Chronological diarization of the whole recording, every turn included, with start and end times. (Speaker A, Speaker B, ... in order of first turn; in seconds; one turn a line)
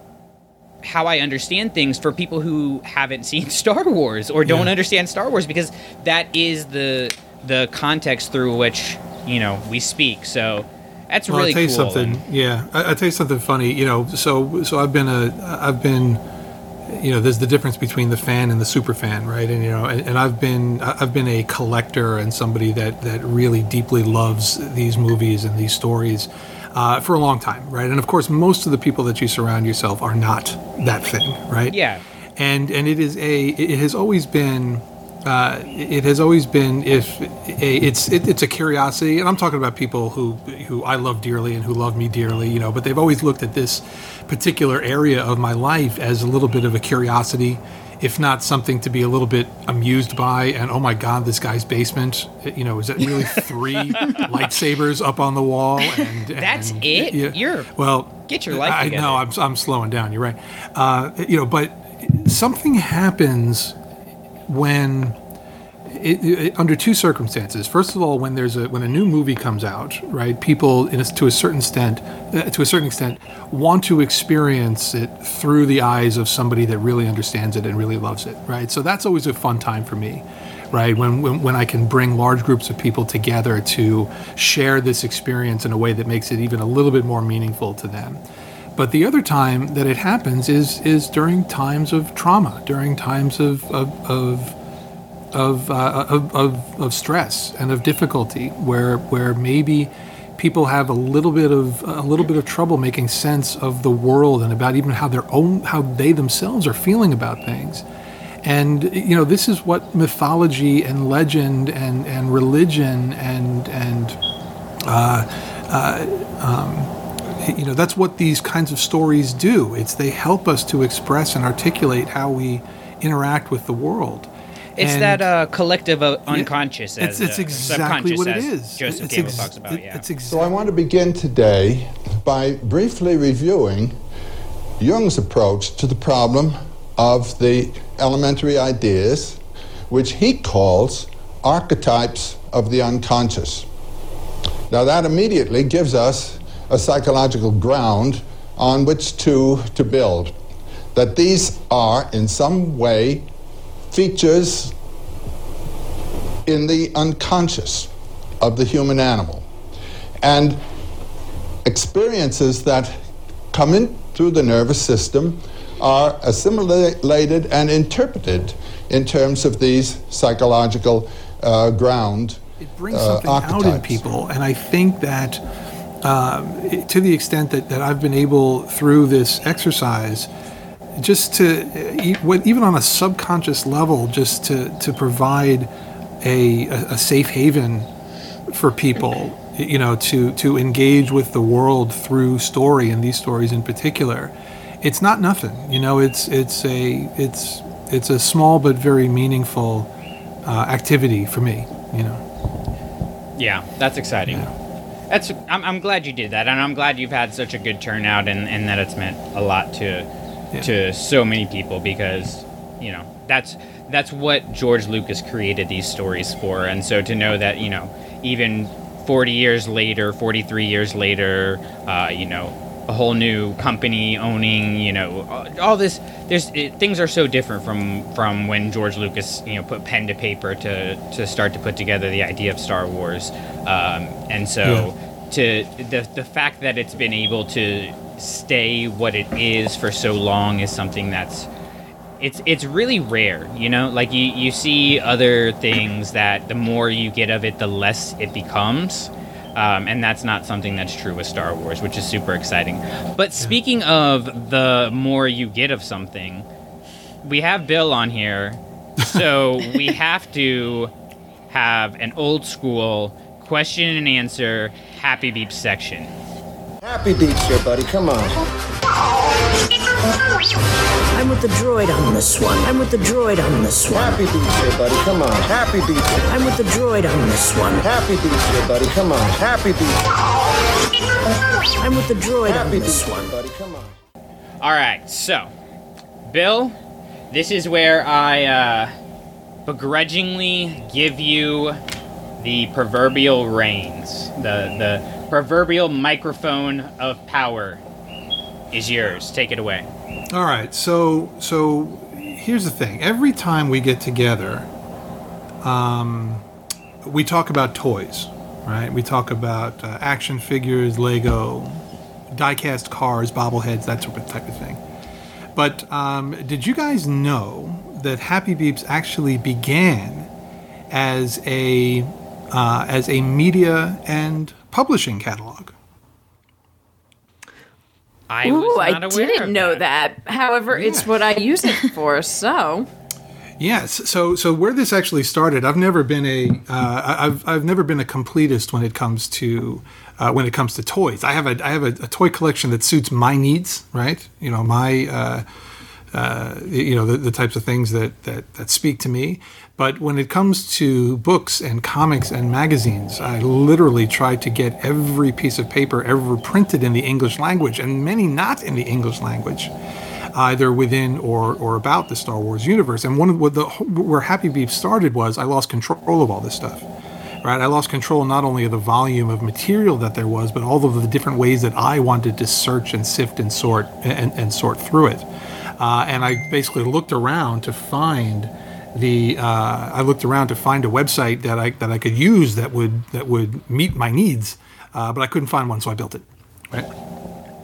Speaker A: 0.8-12.2
Speaker B: 4.5-4.7
Speaker B: 11.3-16.2
Speaker B: 16.9-31.8
Speaker A: 31.7-32.0
Speaker B: 32.4-63.8
Speaker A: 56.4-57.7
Speaker A: 58.3-59.2
Speaker B: 64.5-65.2
Speaker B: 65.9-88.2
Speaker B: 88.8-94.6
Speaker B: 95.3-107.8
Speaker B: 108.4-114.2
Speaker B: 114.8-125.3
Speaker A: 124.8-130.1
Speaker B: 126.3-130.7
Speaker C: 130.3-134.0
Speaker C: 134.8-143.7
Speaker C: 144.7-150.3
Speaker C: 150.9-153.3
Speaker C: 153.9-154.7
Speaker C: 156.5-157.9
Speaker C: 158.4-159.5
Speaker C: 160.2-160.6
Speaker C: 161.7-162.9
Speaker C: 163.5-172.4
Speaker B: 172.6-175.4
Speaker C: 172.9-174.0
Speaker B: 176.0-180.3
Speaker B: 181.0-185.7
Speaker B: 186.2-187.9
Speaker B: 188.5-199.9
Speaker B: 200.4-202.2
Speaker A: 203.4-204.5
Speaker A: 205.1-210.1
Speaker A: 210.6-241.5
Speaker B: 234.6-234.9
Speaker A: 242.2-256.4
Speaker A: 257.2-260.9
Speaker A: 261.5-266.1
Speaker D: 266.8-268.4
Speaker E: 271.1-274.2
Speaker D: 273.9-276.3
Speaker E: 276.3-277.8
Speaker D: 277.8-280.0
Speaker E: 281.8-283.3
Speaker D: 282.4-283.9
Speaker A: 284.6-285.5
Speaker A: 286.3-286.8
Speaker A: 287.3-288.9
Speaker A: 289.7-291.8
Speaker A: 292.4-297.8
Speaker A: 298.7-299.9
Speaker B: 300.3-304.7
Speaker B: 305.6-306.4
Speaker B: 307.0-314.8
Speaker B: 315.6-320.3
Speaker B: 320.9-325.8
Speaker A: 328.3-329.8
Speaker F: 328.5-332.9
Speaker B: 330.7-331.1
Speaker B: 333.6-345.4
Speaker B: 346.1-359.7
Speaker B: 360.3-366.9
Speaker B: 367.4-375.3
Speaker B: 375.8-386.9